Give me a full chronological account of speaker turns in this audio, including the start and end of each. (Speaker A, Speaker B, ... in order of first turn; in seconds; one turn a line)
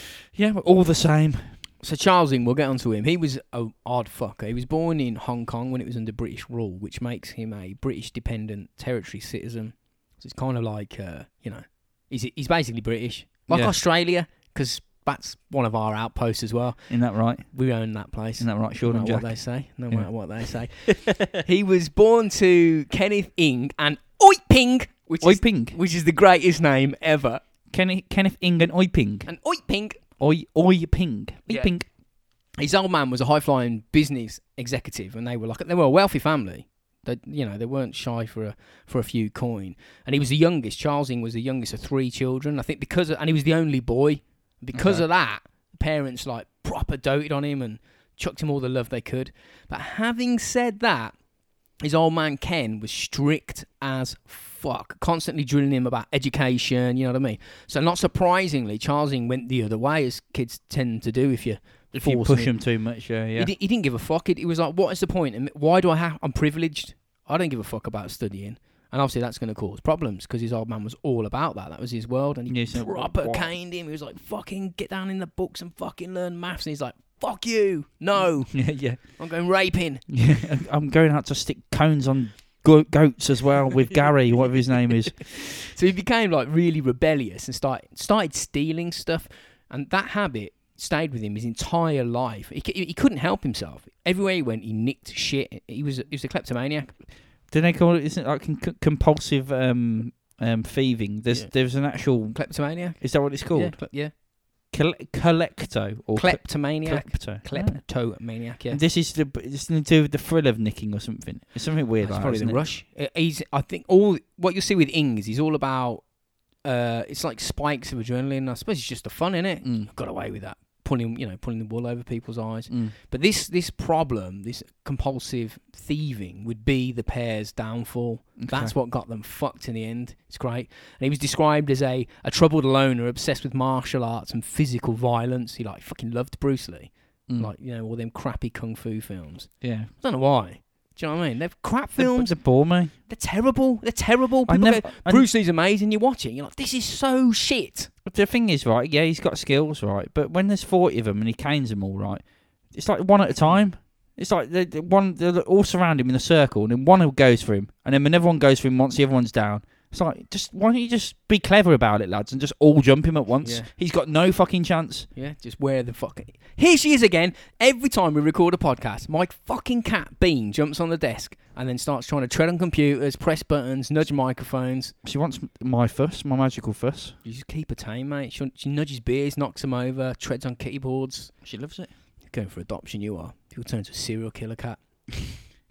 Speaker A: 0.2-1.6
Speaker B: 1.8-27.4
Speaker A: 13.5-13.8
Speaker A: 16.9-17.5
Speaker A: 18.4-21.1
Speaker A: 25.2-25.8
Speaker A: 27.7-29.3
Speaker B: 29.2-30.0
Speaker A: 30.2-31.9
Speaker B: 32.6-51.1
Speaker A: 44.7-45.0
Speaker B: 51.8-62.6
Speaker A: 61.9-63.5
Speaker B: 63.3-80.2
Speaker A: 72.5-73.5
Speaker A: 78.5-79.2
Speaker A: 80.1-85.4
Speaker B: 85.6-97.0
Speaker A: 97.5-103.8
Speaker B: 101.3-104.1
Speaker A: 104.7-108.1
Speaker B: 106.1-108.8
Speaker A: 108.7-112.6
Speaker B: 112.0-116.1
Speaker B: 116.6-147.9
Speaker A: 119.6-119.9
Speaker A: 122.7-122.9
Speaker A: 128.4-128.7
Speaker A: 139.6-139.9
Speaker A: 141.9-142.9
Speaker A: 144.5-145.3
Speaker A: 148.1-165.1
Speaker B: 163.4-163.7
Speaker B: 165.1-174.9
Speaker A: 175.0-177.2
Speaker B: 177.2-181.3
Speaker A: 181.4-181.9
Speaker B: 182.3-185.4